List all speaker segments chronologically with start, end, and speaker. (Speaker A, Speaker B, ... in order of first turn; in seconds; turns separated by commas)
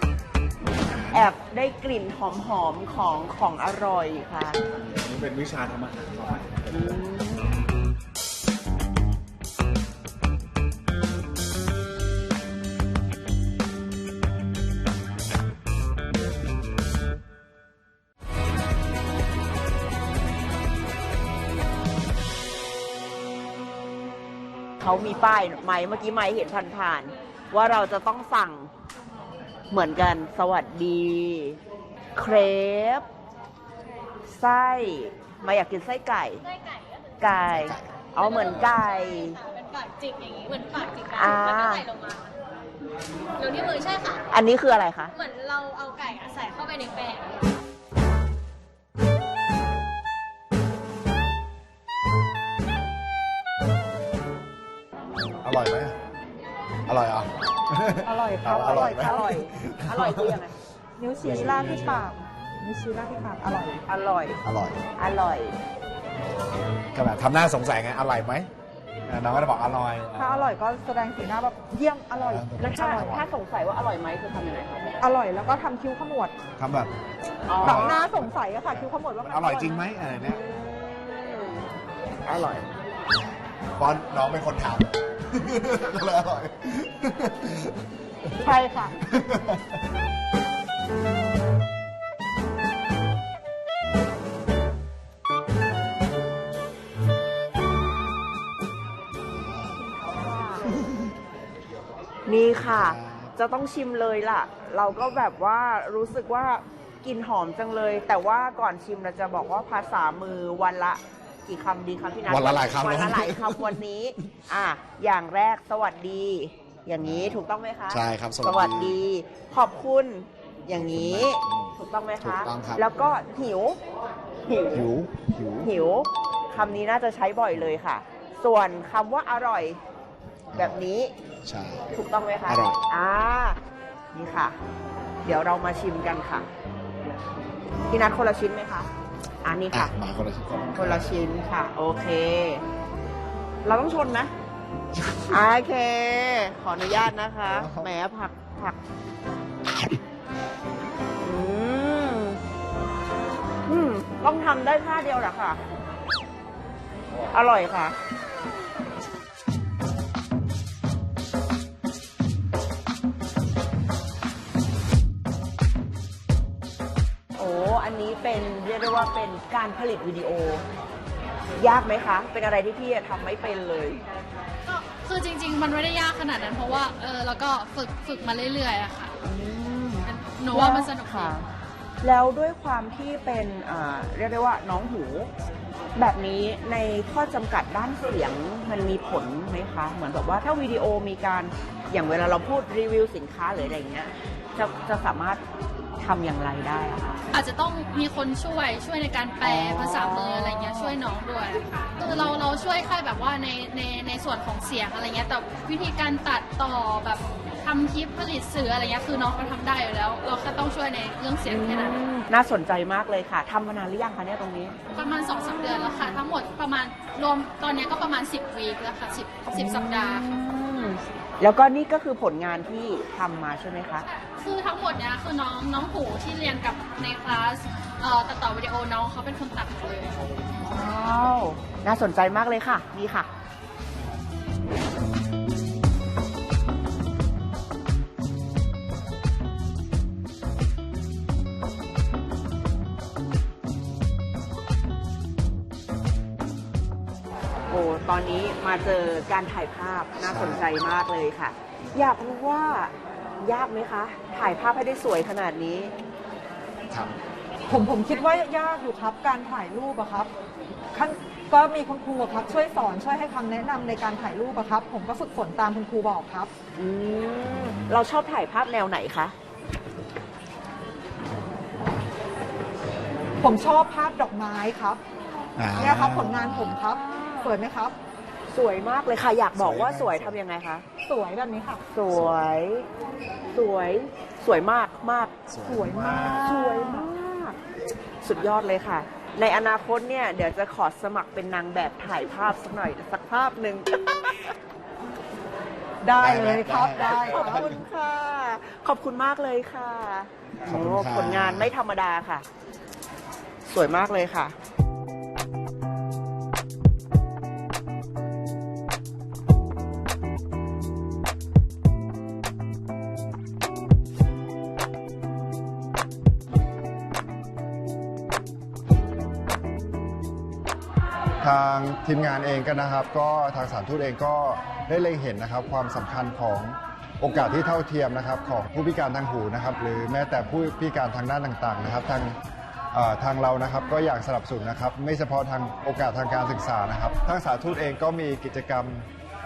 Speaker A: 1.1-4.6, Speaker B: 4.8-7.0, Speaker A: 6.7-7.5, Speaker A: 24.8-28.7, Speaker A: 29.7-31.6, Speaker A: 32.1-33.0, Speaker A: 34.3-36.4, Speaker C: 36.4-37.2, Speaker A: 37.2-39.4, Speaker B: 37.4-37.9, Speaker C: 38.2-42.3, Speaker A: 41.1-41.8, Speaker C: 43.4-44.2, Speaker A: 44.3-45.1, Speaker C: 45.1-47.5, Speaker B: 55.4-56.0, Speaker B: 56.9-60.3, Speaker D: 58.0-59.5, Speaker A: 58.7-60.5, Speaker D: 61.0-63.8, Speaker B: 61.2-62.0, Speaker A: 63.9-64.4, Speaker B: 64.4-64.8, Speaker A: 65.0-65.6, Speaker B: 66.9-68.5, Speaker B: 69.1-70.6, Speaker D: 70.2-73.1, Speaker B: 72.2-73.2, Speaker A: 72.6-74.9, Speaker D: 75.0-76.3, Speaker B: 76.6-76.9, Speaker A: 77.5-78.0, Speaker D: 77.6-79.9, Speaker B: 77.6-80.4, Speaker A: 81.1-81.6, Speaker A: 82.2-82.6, Speaker B: 83.8-87.7, Speaker D: 88.4-89.0, Speaker B: 89.0-89.6, Speaker B: 99.3-99.8, Speaker A: 100.1-100.6, Speaker B: 100.7-101.1, Speaker A: 102.3-123.8, Speaker B: 102.5-103.3, Speaker B: 112.3-113.8, Speaker B: 117.0-119.0, Speaker B: 120.8-122.8, Speaker A: 124.5-124.8, Speaker B: 124.7-125.7, Speaker A: 125.6-129.8, Speaker A: 130.5-131.1, Speaker B: 131.4-131.9, Speaker A: 131.9-133.6, Speaker B: 132.5-132.8, Speaker A: 134.1-134.6, Speaker A: 135.2-136.5, Speaker A: 137.9-138.9, Speaker A: 139.4-139.9, Speaker B: 139.7-141.1, Speaker A: 140.8-142.6, Speaker A: 143.6-144.3, Speaker A: 145.3-148.8, Speaker B: 147.5-147.9, Speaker A: 151.2-152.4, Speaker A: 153.7-155.6, Speaker A: 157.3-158.0, Speaker A: 167.4-170.6, Speaker A: 171.6-174.0, Speaker E: 174.6-179.1, Speaker A: 179.2-181.5, Speaker E: 180.1-181.3, Speaker A: 182.0-185.3, Speaker A: 186.0-195.4, Speaker A: 196.0-197.2, Speaker E: 197.3-212.0, Speaker A: 199.4-201.0, Speaker A: 211.4-214.8, Speaker E: 214.9-220.2, Speaker A: 215.3-216.2, Speaker A: 219.5-224.0, Speaker E: 224.1-230.2, Speaker A: 230.6-233.3, Speaker A: 247.7-255.9, Speaker B: 250.2-250.6, Speaker D: 257.7-260.3, Speaker D: 260.9-266.5, Speaker A: 266.8-269.3, Speaker B: 267.4-268.0, Speaker D: 273.4-275.0, Speaker B: 275.6-276.8, Speaker D: 275.8-277.9, Speaker A: 277.1-277.5, Speaker A: 278.5-280.9, Speaker B: 279.5-280.4, Speaker D: 281.1-281.8, Speaker A: 281.9-282.9, Speaker B: 282.1-282.4, Speaker A: 283.5-285.3, Speaker B: 285.5-286.6, Speaker D: 285.6-287.0, Speaker A: 286.3-287.6, Speaker A: 288.2-294.5, Speaker D: 296.0-297.7, Speaker B: 296.2-297.8, Speaker A: 297.1-302.4, Speaker B: 300.6-301.7, Speaker A: 303.7-304.5, Speaker F: 321.4-332.4, Speaker F: 332.9-339.1